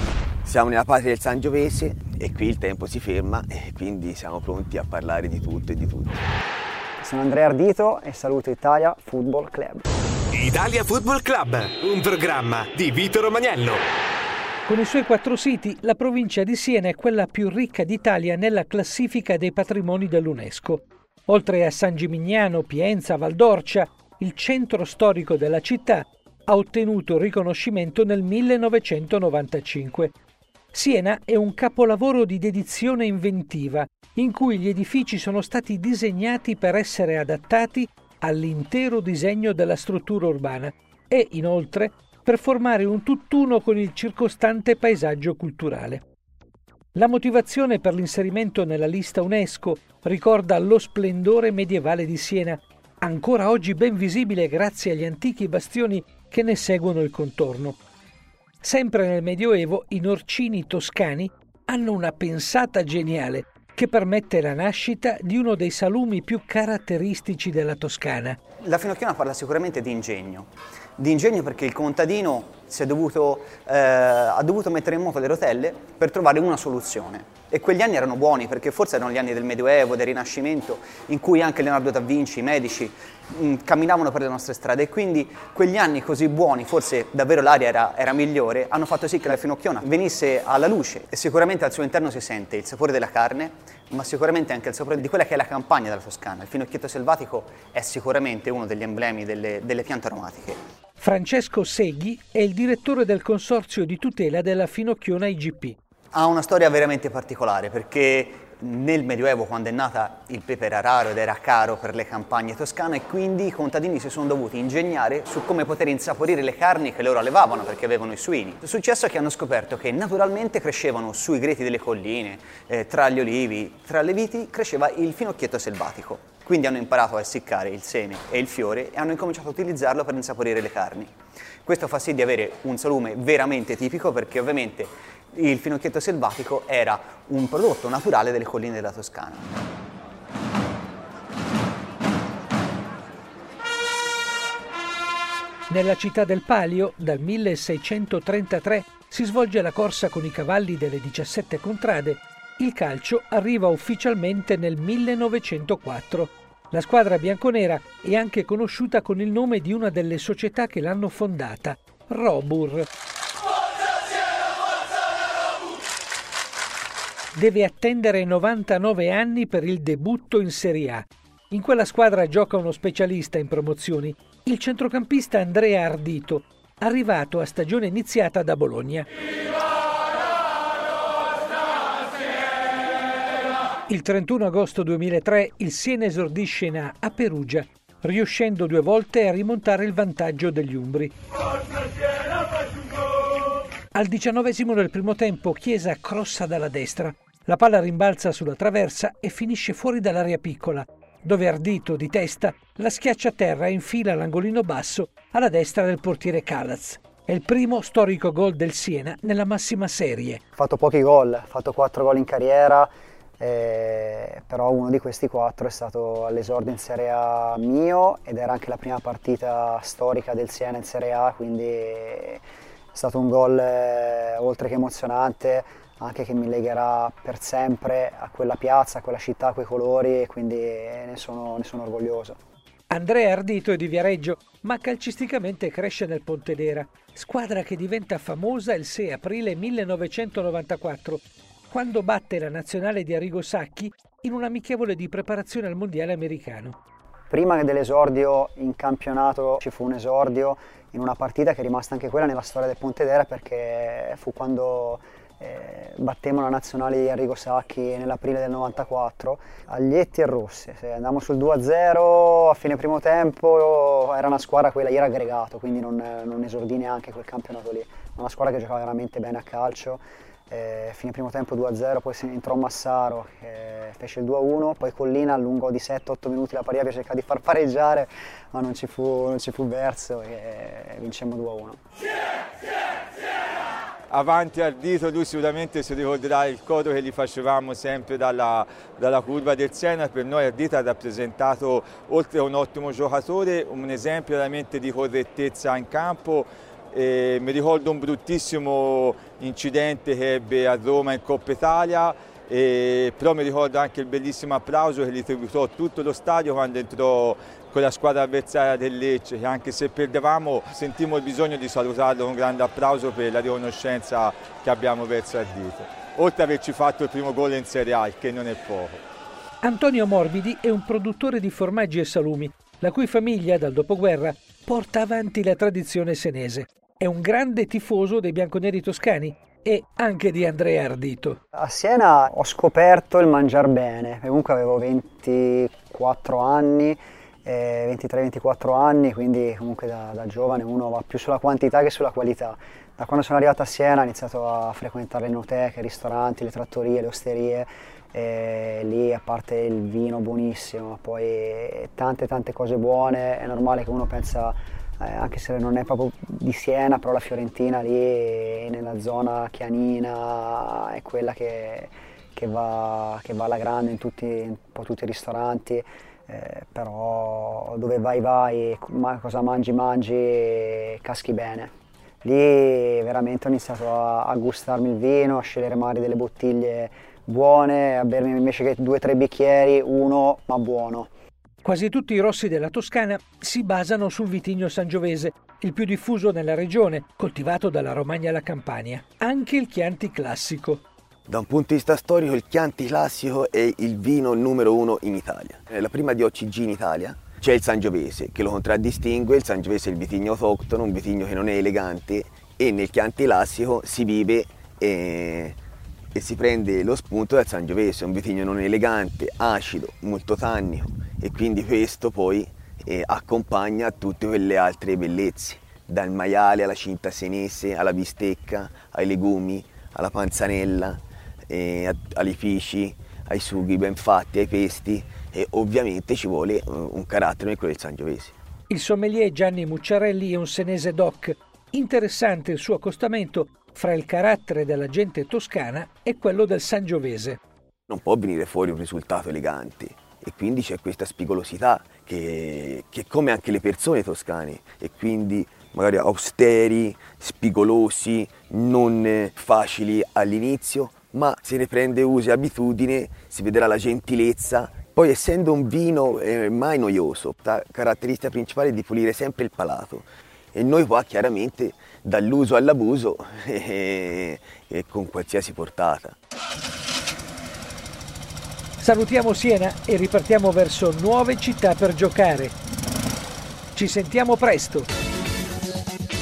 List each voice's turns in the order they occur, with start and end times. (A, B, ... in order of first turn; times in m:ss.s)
0:00.4-0:06.2 A
0:07.0-0:09.8 B
0:10.3-0:13.8 C
0:14.6-0:30.1 D
0:30.7-0:46.0 D
0:47.0-0:57.8 D
0:58.6-1:08.4 D
1:08.6-1:40.6 E
1:41.0-1:45.8 D
1:46.1-2:11.1 E
2:11.6-2:19.5 E
2:25.7-2:42.9 D
2:47.3-2:59.1 D
3:03.9-3:11.1 D
3:13.9-3:30.4 D
3:30.6-3:42.4 B
3:42.9-3:52.4 B
3:52.9-4:06.8 D
4:07.3-4:41.8 B
4:44.1-5:19.0 F
5:19.6-5:31.4 D
5:31.6-6:11.7 B
6:12.2-6:21.1 B
6:21.6-6:30.8 D
6:31.3-6:45.6 A
6:46.2-7:08.3 A
7:08.7-7:17.4 D
7:17.9-7:46.2 A
7:48.8-7:52.6 D
7:53.8-7:54.9 D